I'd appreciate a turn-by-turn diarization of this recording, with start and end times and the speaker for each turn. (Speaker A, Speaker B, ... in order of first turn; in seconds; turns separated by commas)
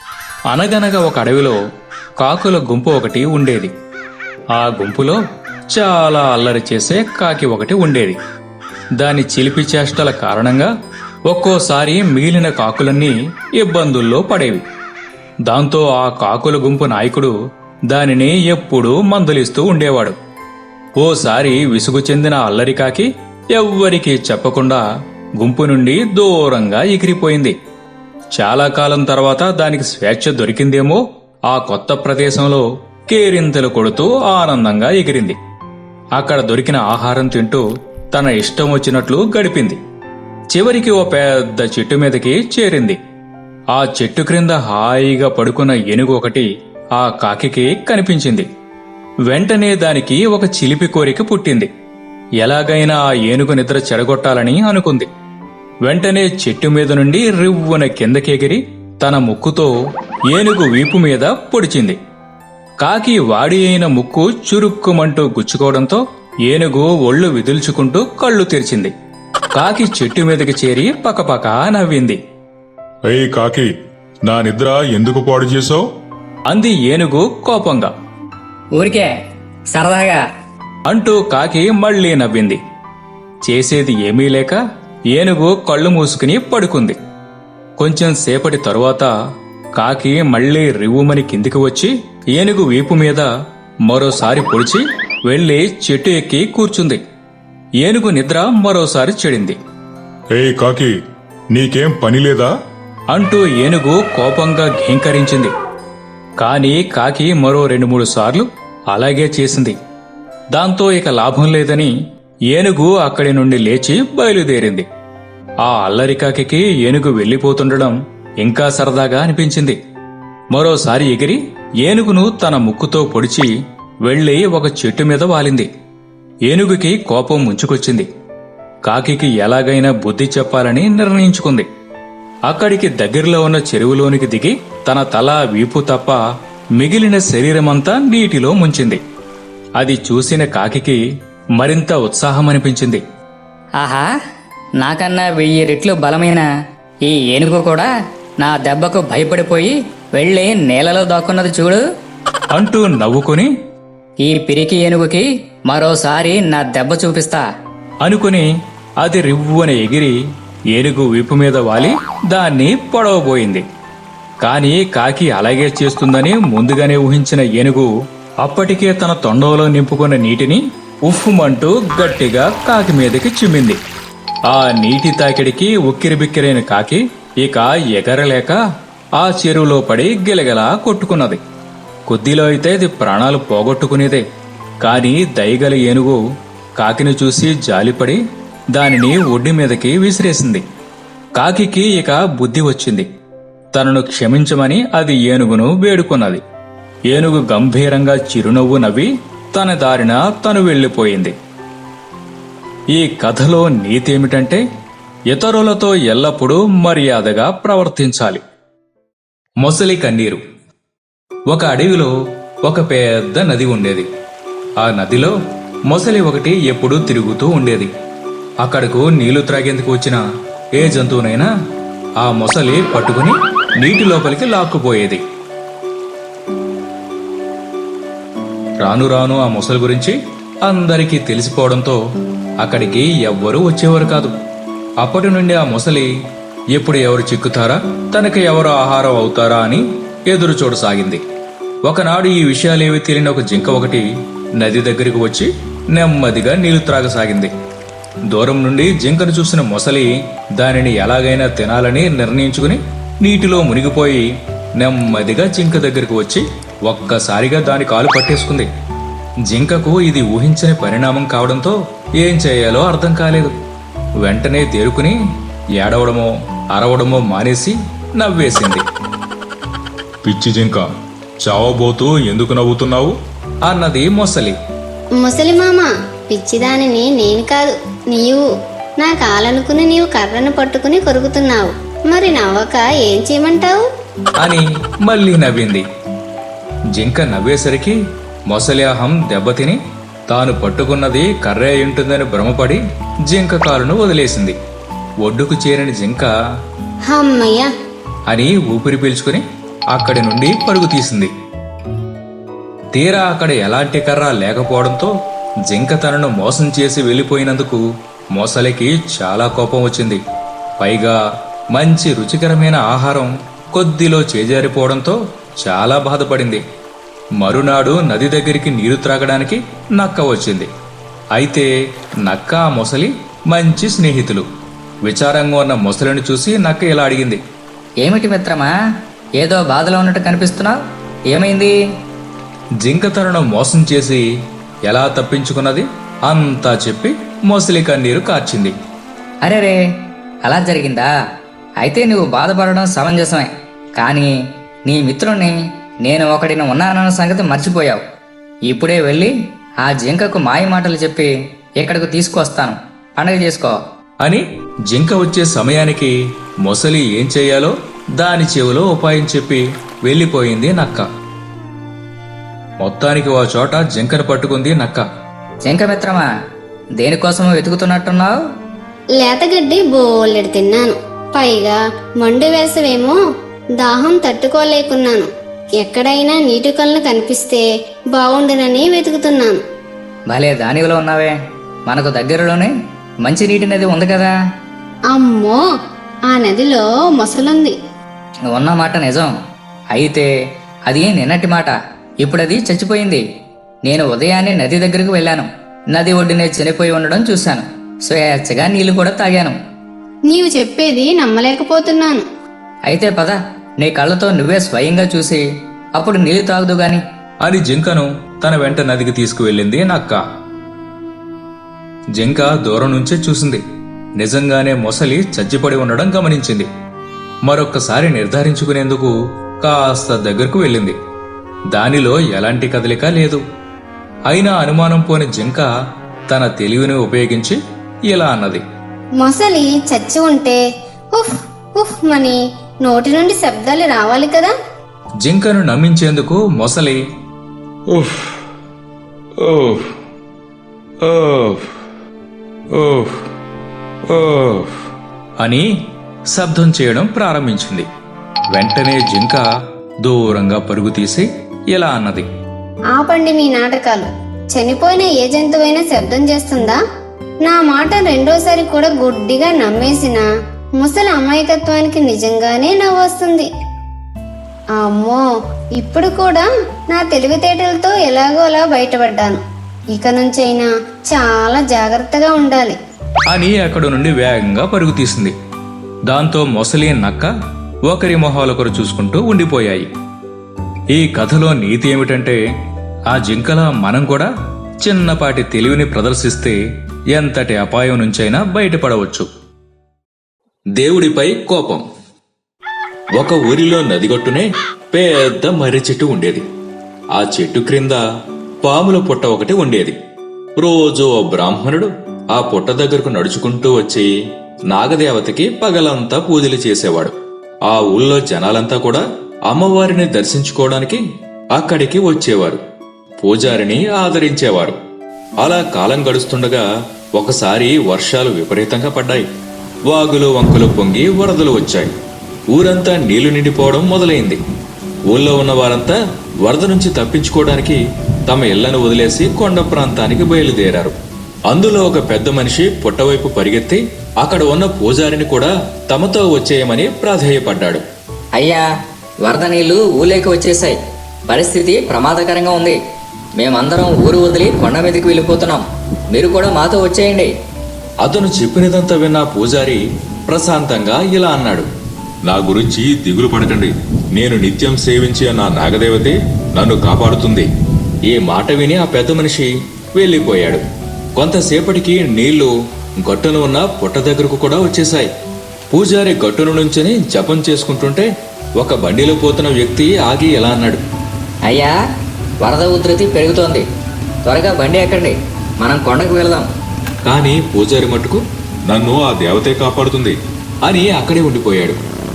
Speaker A: 0.5-1.6, Speaker A: 2.2-3.7, Speaker A: 4.6-5.2, Speaker A: 5.7-8.2, Speaker A: 9.0-10.7, Speaker A: 11.3-14.6, Speaker A: 15.5-17.3, Speaker A: 17.9-20.1, Speaker A: 21.0-24.8, Speaker A: 25.4-27.5, Speaker A: 28.3-35.4, Speaker A: 36.1-39.8, Speaker A: 40.5-43.0, Speaker A: 43.7-48.5, Speaker A: 49.3-51.7, Speaker A: 52.4-55.1, Speaker A: 55.8-59.7, Speaker A: 60.3-62.0, Speaker A: 62.8-68.9, Speaker A: 69.5-72.2, Speaker B: 73.1-73.7, Speaker B: 74.3-75.5, Speaker A: 74.3-75.8, Speaker A: 76.5-77.9, Speaker C: 78.8-79.1, Speaker C: 79.7-80.2, Speaker A: 80.8-82.6, Speaker A: 83.4-84.6, Speaker A: 85.1-87.0, Speaker A: 87.8-89.1, Speaker A: 89.8-93.3, Speaker A: 93.9-97.0, Speaker A: 97.8-99.6, Speaker B: 100.3-100.9, Speaker B: 101.5-102.5, Speaker A: 102.0-102.4, Speaker A: 103.1-105.5, Speaker A: 106.4-109.8, Speaker A: 110.5-111.9, Speaker A: 112.5-114.8, Speaker A: 115.6-119.8, Speaker A: 120.5-123.5, Speaker A: 124.0-125.7, Speaker A: 126.5-128.1, Speaker A: 128.8-131.7, Speaker A: 132.5-136.2, Speaker A: 136.8-139.0, Speaker A: 139.8-141.0, Speaker A: 141.6-143.0, Speaker C: 143.8-144.1, Speaker C: 144.8-146.5, Speaker C: 147.0-147.9, Speaker C: 148.4-151.8, Speaker A: 152.5-153.5, Speaker C: 154.2-157.4, Speaker A: 158.0-158.5, Speaker A: 159.0-160.2, Speaker A: 160.7-163.6, Speaker A: 164.4-167.9, Speaker A: 168.4-173.8, Speaker A: 174.5-178.6, Speaker A: 179.2-181.4, Speaker A: 182.1-184.2, Speaker A: 184.8-186.2, Speaker A: 186.8-188.2, Speaker A: 188.7-190.6, Speaker A: 191.4-193.1, Speaker A: 193.7-196.4, Speaker A: 197.1-201.3, Speaker A: 202.9-204.6, Speaker A: 205.3-208.4, Speaker A: 209.6-210.4, Speaker A: 211.5-212.1, Speaker A: 212.6-214.1, Speaker A: 214.8-215.3, Speaker A: 215.9-217.9, Speaker A: 218.6-220.2, Speaker A: 220.8-221.5, Speaker A: 222.2-225.2, Speaker A: 228.8-232.0, Speaker A: 232.6-234.3, Speaker A: 235.0-236.1, Speaker A: 236.7-241.2, Speaker A: 241.8-244.1, Speaker A: 244.6-247.5, Speaker A: 248.3-254.3, Speaker A: 254.8-258.7, Speaker A: 259.5-263.5, Speaker A: 264.2-265.1, Speaker A: 265.8-268.8, Speaker A: 270.2-270.9, Speaker A: 271.4-273.1, Speaker A: 273.6-274.6, Speaker D: 275.2-278.4, Speaker D: 279.0-283.8, Speaker A: 284.4-285.8, Speaker A: 286.9-288.0, Speaker A: 288.5-289.8, Speaker A: 290.3-294.6, Speaker A: 295.2-296.3, Speaker D: 297.1-297.7, Speaker A: 298.3-301.3, Speaker A: 302.9-305.1, Speaker A: 305.7-307.8, Speaker A: 308.4-310.2, Speaker A: 310.8-311.2, Speaker A: 311.7-316.6, Speaker A: 317.4-320.7, Speaker A: 321.3-321.7, Speaker A: 322.2-324.4, Speaker A: 325.1-327.4, Speaker C: 328.0-328.7, Speaker C: 329.4-330.8, Speaker C: 331.3-331.7, Speaker A: 332.8-334.2, Speaker A: 334.9-338.7, Speaker C: 339.4-339.8, Speaker C: 340.4-341.1, Speaker C: 341.8-344.3, Speaker C: 344.9-345.5, Speaker C: 346.0-348.0, Speaker C: 348.7-353.8, Speaker A: 354.2-356.1, Speaker A: 356.6-361.1, Speaker A: 362.8-365.0, Speaker C: 365.6-366.3, Speaker C: 367.0-368.4, Speaker D: 369.2-373.2, Speaker D: 373.8-375.3, Speaker D: 375.8-379.6, Speaker C: 380.3-381.3, Speaker C: 381.9-382.7, Speaker C: 383.2-384.3, Speaker D: 385.1-385.6, Speaker D: 386.3-387.7, Speaker C: 388.5-389.3, Speaker C: 389.9-390.3, Speaker C: 390.9-393.2, Speaker C: 393.9-399.6, Speaker D: 400.3-402.2, Speaker C: 402.9-405.4, Speaker C: 406.0-407.0, Speaker A: 407.4-410.2, Speaker A: 412.2-413.6, Speaker A: 414.2-416.7, Speaker A: 417.5-420.9, Speaker A: 421.7-423.4, Speaker A: 424.3-425.7, Speaker A: 426.3-428.6, Speaker D: 429.2-430.6, Speaker D: 431.1-434.5, Speaker A: 435.2-437.0, Speaker A: 445.4-445.6, Speaker A: 446.3-447.9, Speaker A: 448.5-449.4, Speaker A: 450.0-452.3, Speaker D: 452.9-456.8, Speaker D: 457.4-460.3, Speaker D: 460.8-463.5, Speaker D: 464.7-465.2, Speaker D: 465.8-469.4, Speaker D: 469.9-472.8, Speaker A: 473.3-475.3, Speaker A: 476.1-477.3, Speaker A: 477.9-479.9, Speaker A: 480.9-482.4, Speaker A: 483.1-484.3, Speaker A: 484.8-486.6, Speaker A: 487.1-489.3, Speaker A: 490.8-491.8, Speaker A: 493.1-496.4, Speaker A: 497.1-498.0, Speaker A: 498.6-500.0, Speaker A: 500.6-504.1, Speaker A: 504.7-507.1, Speaker A: 507.6-511.0, Speaker A: 511.5-512.6, Speaker A: 513.2-514.8, Speaker A: 515.4-519.3, Speaker A: 519.9-521.9, Speaker A: 522.5-524.4, Speaker A: 525.1-531.0, Speaker A: 531.5-537.8, Speaker C: 538.3-538.6, Speaker C: 539.2-540.8, Speaker C: 541.3-542.8, Speaker C: 543.4-547.3, Speaker A: 548.0-551.7, Speaker A: 552.2-557.5, Speaker A: 558.1-560.6, Speaker A: 561.2-562.5, Speaker A: 563.0-565.1, Speaker A: 565.7-570.8, Speaker C: 571.4-571.7, Speaker C: 572.4-573.6, Speaker C: 574.2-576.5, Speaker A: 577.0-581.8